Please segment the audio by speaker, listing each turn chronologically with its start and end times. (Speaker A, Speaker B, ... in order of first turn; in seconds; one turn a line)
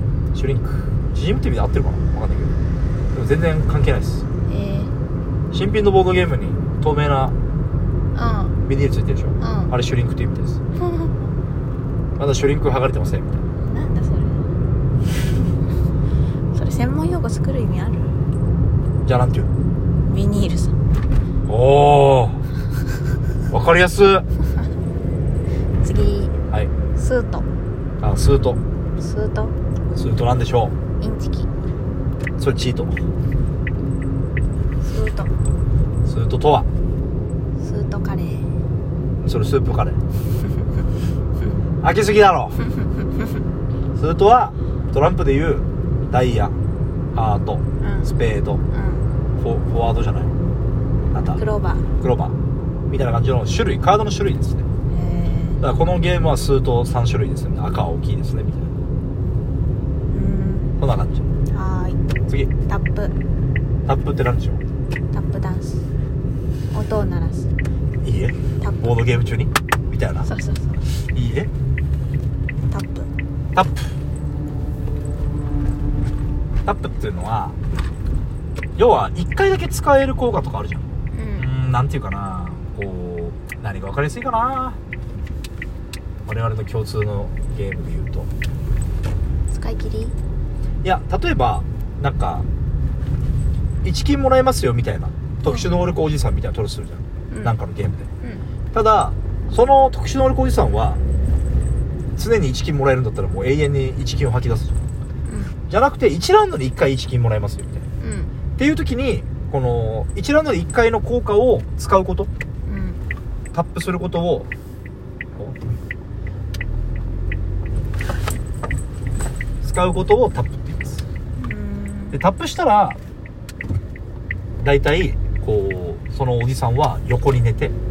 Speaker A: 0.3-2.5
Speaker A: 3.1-4.2
Speaker B: 4.5-4.9
Speaker A: 5.5-7.3
Speaker B: 8.1-8.6
Speaker A: 8.7-10.6
Speaker B: 9.4-9.7
Speaker B: 10.8-11.1
Speaker A: 12.2-13.4
Speaker B: 13.6-14.5
Speaker B: 16.5-18.2
Speaker A: 19.0-19.5
Speaker B: 20.1-20.8
Speaker A: 21.5-22.4
Speaker A: 23.5-24.2
Speaker B: 25.8-26.4
Speaker B: 26.9-27.5
Speaker A: 28.0-28.6
Speaker B: 29.0-29.5
Speaker A: 29.9-30.8
Speaker B: 31.0-31.5
Speaker A: 32.4-33.0
Speaker B: 34.8-35.3
Speaker A: 36.0-36.7
Speaker B: 37.6-38.5
Speaker A: 39.2-40.0
Speaker A: 41.8-42.6
Speaker A: 43.9-46.6
Speaker A: 47.1-48.6
Speaker B: 47.8-48.1
Speaker B: 48.7-49.1
Speaker A: 49.4-50.3
Speaker A: 51.1-51.4
Speaker B: 51.4-51.9
Speaker A: 52.0-52.4
Speaker A: 52.9-54.6
Speaker B: 54.9-55.6
Speaker A: 55.6-58.7
Speaker B: 60.1-60.7
Speaker A: 60.8-61.3
Speaker B: 61.5-62.0
Speaker A: 62.3-62.5
Speaker B: 62.6-63.1
Speaker A: 63.9-64.6
Speaker B: 65.1-65.8
Speaker B: 66.7-67.5
Speaker A: 68.0-70.3
Speaker B: 68.6-69.0
Speaker B: 70.2-70.9
Speaker A: 70.9-71.5
Speaker B: 72.7-73.1
Speaker A: 73.5-73.9
Speaker A: 76.6-77.6
Speaker A: 78.8-80.9
Speaker B: 81.1-81.5
Speaker A: 81.4-84.8
Speaker A: 86.2-88.3
Speaker B: 89.5-90.1
Speaker A: 90.8-92.5
Speaker A: 93.8-98.1
Speaker B: 95.4-95.7
Speaker A: 98.7-101.0
Speaker A: 102.2-104.8
Speaker B: 105.2-105.5
Speaker A: 105.7-107.8
Speaker B: 108.0-108.3
Speaker A: 108.5-112.3
Speaker B: 112.6-113.0
Speaker A: 113.5-114.5
Speaker A: 119.6-121.0
Speaker B: 121.4-122.2
Speaker A: 122.1-123.0
Speaker A: 124.6-127.7